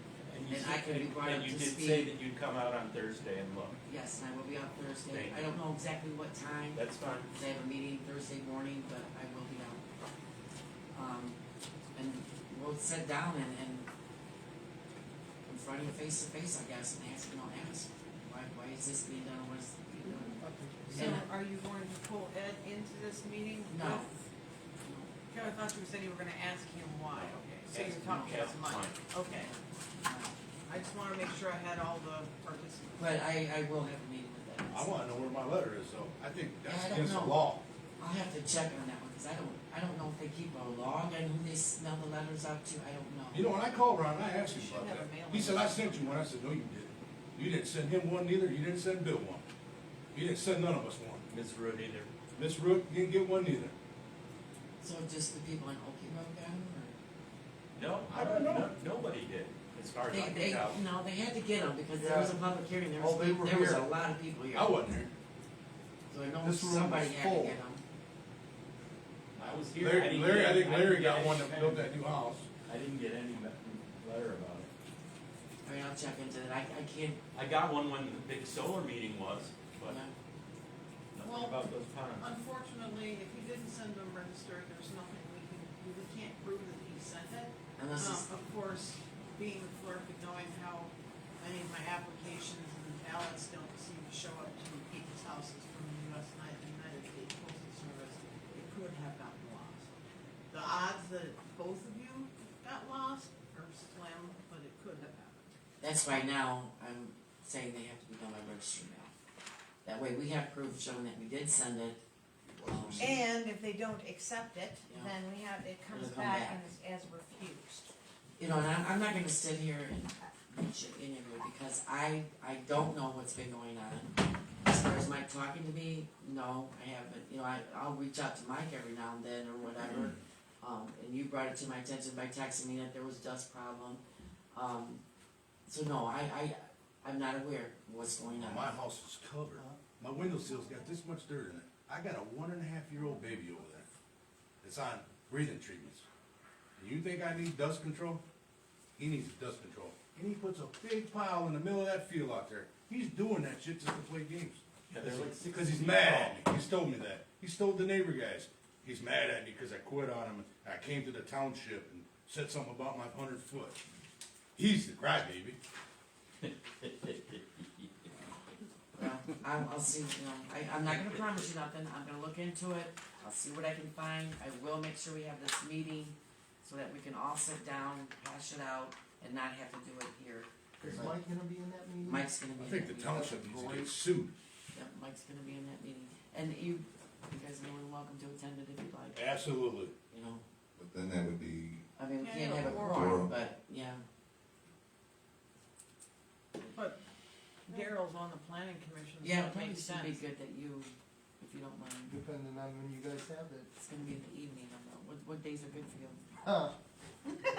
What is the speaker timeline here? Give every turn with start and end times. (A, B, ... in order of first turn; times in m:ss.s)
0:00.3-0:03.8 A
0:00.5-0:02.1 B
0:03.8-0:09.8 B
0:05.1-0:05.6 A
0:06.7-0:07.3 A
0:10.9-0:11.4 B
0:11.9-0:13.9 B
0:15.4-0:21.3 B
0:20.4-0:21.0 C
0:21.2-0:24.1 D
0:23.7-0:24.1 B
0:24.8-0:25.1 B
0:25.3-0:29.5 D
0:27.1-0:29.0 A
0:29.3-0:30.3 B
0:30.7-0:33.1 D
0:33.0-0:35.0 B
0:34.7-0:37.6 E
0:36.6-0:37.4 B
0:38.0-0:43.5 B
0:43.3-0:49.4 E
0:44.3-0:46.2 D
0:50.1-0:51.3 E
0:51.3-0:52.1 A
0:52.3-0:53.8 E
0:54.8-0:57.0 B
0:57.8-1:00.8 A
0:58.1-0:58.7 E
1:00.1-1:04.8 B
1:01.9-1:03.9 C
1:04.5-1:05.1 E
1:06.1-1:07.8 B
1:06.4-1:07.6 C
1:09.3-1:12.0 A
1:09.8-1:12.5 E
1:12.6-1:14.7 A
1:15.6-1:17.2 B
1:17.3-1:20.0 A
1:19.8-1:20.1 B
1:21.1-1:22.3 A
1:21.2-1:21.6 D
1:22.2-1:40.0 D
1:27.8-1:28.3 B
1:40.5-1:45.5 D
1:45.8-1:49.1 B
1:49.8-1:52.0 B
1:52.5-1:53.2 F
1:52.6-1:53.2 B
1:53.0-1:57.9 G
1:54.9-1:55.2 B
1:55.9-1:56.6 B
1:58.4-2:14.0 B
2:14.5-2:15.0 B
2:15.6-2:18.7 B
2:18.3-2:23.9 E
2:24.6-2:26.0 E
2:26.8-2:28.2 E
2:29.0-2:43.8 E
2:34.9-2:36.4 A
2:44.6-2:45.6 E
2:46.4-2:47.4 A
2:48.9-3:00.5 B
3:00.8-3:02.3 C
3:00.8-3:01.1 F
3:02.0-3:03.9 B
3:02.6-3:04.3 E
3:04.7-3:09.2 B
3:09.1-3:09.9 E
3:10.1-3:10.4 B
3:10.8-3:11.9 F
3:12.0-3:14.0 B
3:12.2-3:13.2 D
3:12.6-3:13.3 F
3:16.7-3:17.0 D
3:17.7-3:17.9 G
3:17.7-3:20.2 D
3:19.2-3:22.2 B
3:22.1-3:23.7 C
3:23.7-3:26.3 B
3:26.4-3:26.7 C